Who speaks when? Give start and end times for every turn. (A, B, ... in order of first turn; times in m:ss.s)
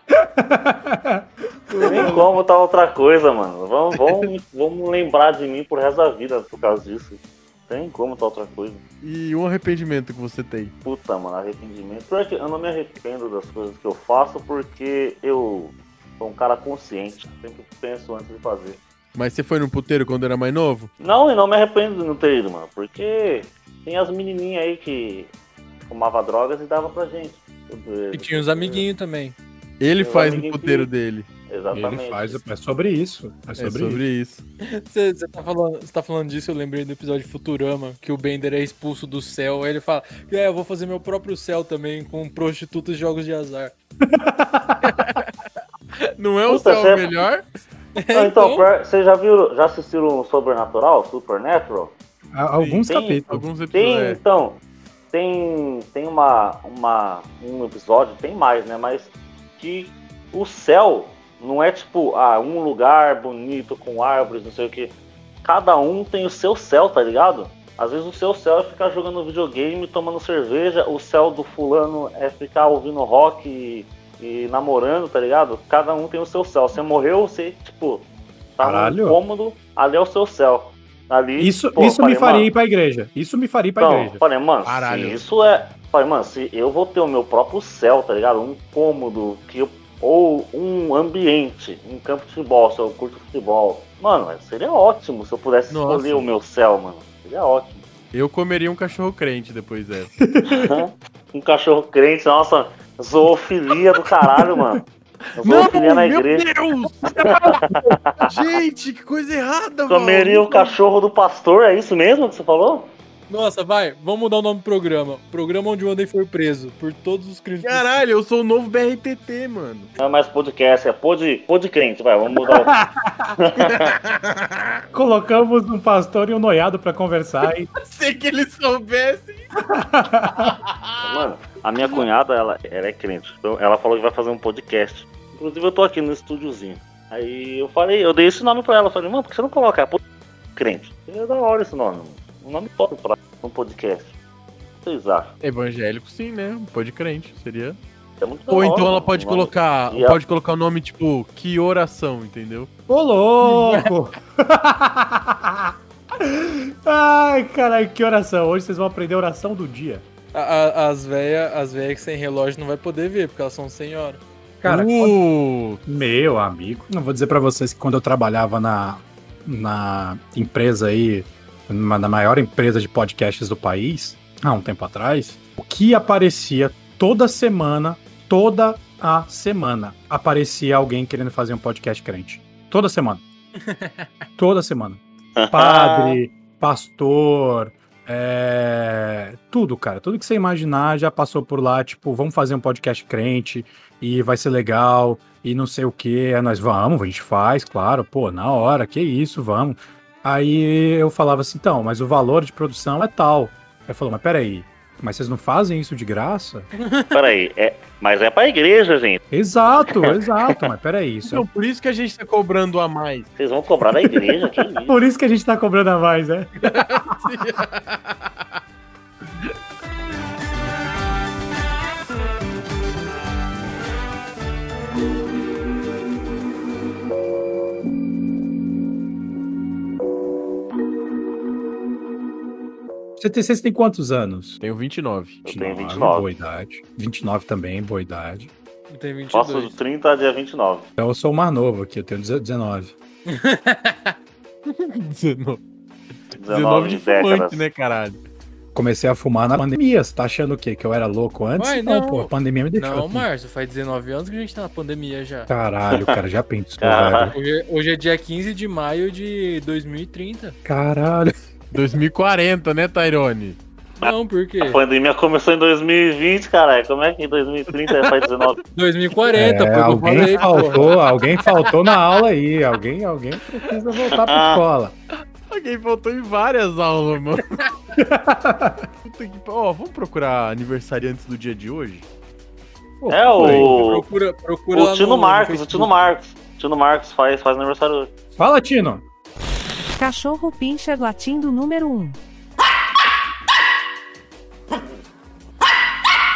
0:00.1-0:02.2 A
0:01.7-0:02.3 B
0:01.8-0:08.8 C
0:09.0-0:10.7 B
0:10.8-0:18.8 C
0:19.2-0:20.9 B
0:21.0-0:25.3 C
0:25.8-0:28.9 C
0:28.1-0:29.4 D
0:29.8-0:31.3 B
0:30.0-0:30.9 C
0:31.5-0:32.4 C
0:31.7-0:34.0 A
0:33.6-0:34.4 B
0:34.8-0:43.7 D
0:44.0-0:45.0 A
0:44.8-0:45.3 B
0:46.2-0:47.4 B
0:46.5-0:47.2 C
0:48.0-0:48.7 D
0:48.1-0:52.0 C
0:52.3-0:53.4 A
0:52.6-0:54.2 B
0:52.9-0:53.2 C
0:53.7-0:54.6 C
0:55.1-1:22.5 C
1:18.6-1:19.2 A
1:21.4-1:24.2 A
1:23.8-1:37.8 C
1:24.6-1:25.2 B
1:35.7-1:36.3 B
1:38.1-1:40.1 B
1:40.2-1:40.8 A
1:40.5-1:44.8 C
1:44.2-1:44.6 A
1:45.4-1:46.5 C
1:45.4-1:50.8 B
1:47.5-1:48.3 C
1:49.9-1:52.9 C
1:53.3-1:58.0 D
1:57.6-1:59.9 B
2:00.0-2:02.7 C
2:02.4-2:03.4 A
2:03.4-2:03.9 C
2:03.7-2:04.7 B
2:04.9-2:07.7 A
2:07.8-2:09.5 B
2:09.7-2:10.6 A
2:10.4-2:10.9 B
2:11.0-2:20.0 C
2:20.6-2:24.1 C
2:24.8-2:25.3 C
2:25.4-2:27.8 B
2:28.2-2:30.2 C
2:28.5-2:32.7 B
2:32.9-2:40.0 A
2:33.4-2:33.9 D
2:40.3-2:44.2 D
2:44.6-2:45.2 A
2:44.6-2:45.8 B
2:45.8-3:03.2 A
3:03.6-3:04.3 D
3:04.4-3:05.0 A
3:05.4-3:06.2 C
3:05.5-3:26.7 A
3:26.8-3:27.2 D
3:27.1-3:29.2 C
3:29.3-3:31.5 A
3:29.8-3:30.6 C
3:31.2-3:33.3 B
3:33.4-3:35.0 C
3:34.9-3:37.3 A
3:36.6-3:38.4 B
3:53.2-3:54.6 A
3:54.6-3:55.4 B
3:55.4-3:56.3 C
3:55.5-3:58.5 A
3:58.9-3:59.8 D
3:59.3-4:00.9 C
4:01.0-4:02.9 A
4:03.3-4:04.2 D
4:04.7-4:05.6 B
4:06.3-4:08.2 B
4:06.4-4:07.6 C
4:08.7-4:13.3 A
4:11.6-4:15.5 D
4:15.5-4:17.4 A
4:15.9-4:16.2 C
4:16.8-4:17.3 C
4:17.3-4:20.6 D
4:20.6-4:21.4 A
4:21.7-4:23.6 B
4:24.0-4:24.8 D
4:24.0-4:28.6 C
4:28.8-4:30.9 D
4:29.3-4:35.0 A
4:30.1-4:30.8 B
4:34.1-4:34.6 C
4:35.5-4:37.6 B
4:38.0-4:38.9 A
4:39.0-4:42.1 B
4:43.0-4:43.8 A
4:43.1-4:44.0 C
4:43.4-4:45.9 D
4:44.7-4:48.1 C
4:48.4-4:49.0 A
4:50.0-4:52.2 E